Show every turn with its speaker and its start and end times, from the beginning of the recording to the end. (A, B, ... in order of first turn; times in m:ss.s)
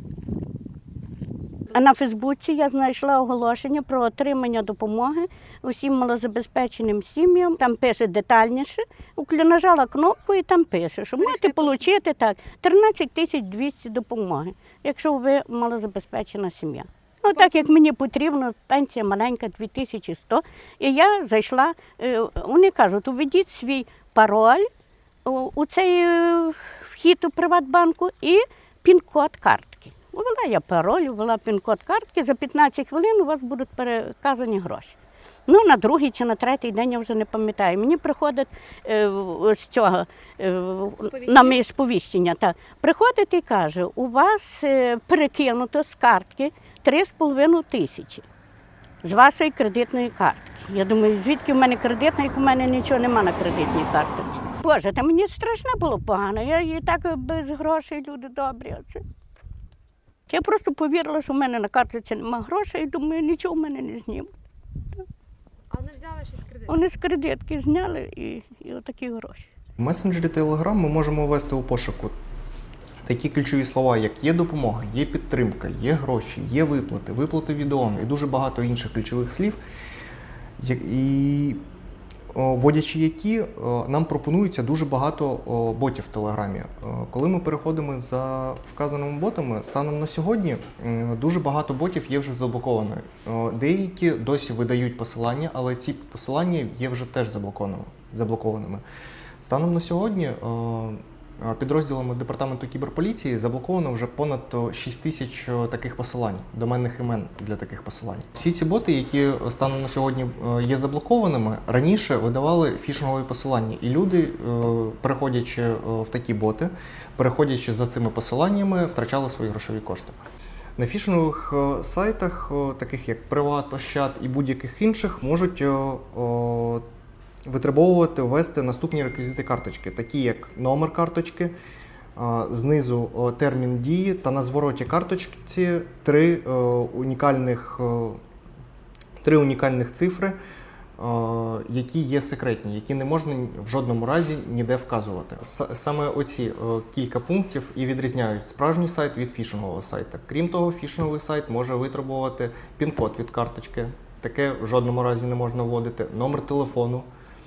0:01.7-0:24.7 A
0:11.2-0:11.8 B
0:25.2-0:48.2 A
0:41.1-0:41.6 B
0:49.0-0:59.0 A
1:00.3-1:04.3 A
1:05.7-1:06.7 B
1:06.7-1:09.5 A
1:09.8-1:12.1 C
1:13.0-1:19.6 C
1:20.6-1:21.6 C
1:22.3-1:38.8 C
1:39.4-2:00.2 C
2:00.8-2:06.8 C
2:07.4-2:11.5 C
2:12.2-2:18.2 C
2:19.2-2:20.4 C
2:21.0-2:37.1 C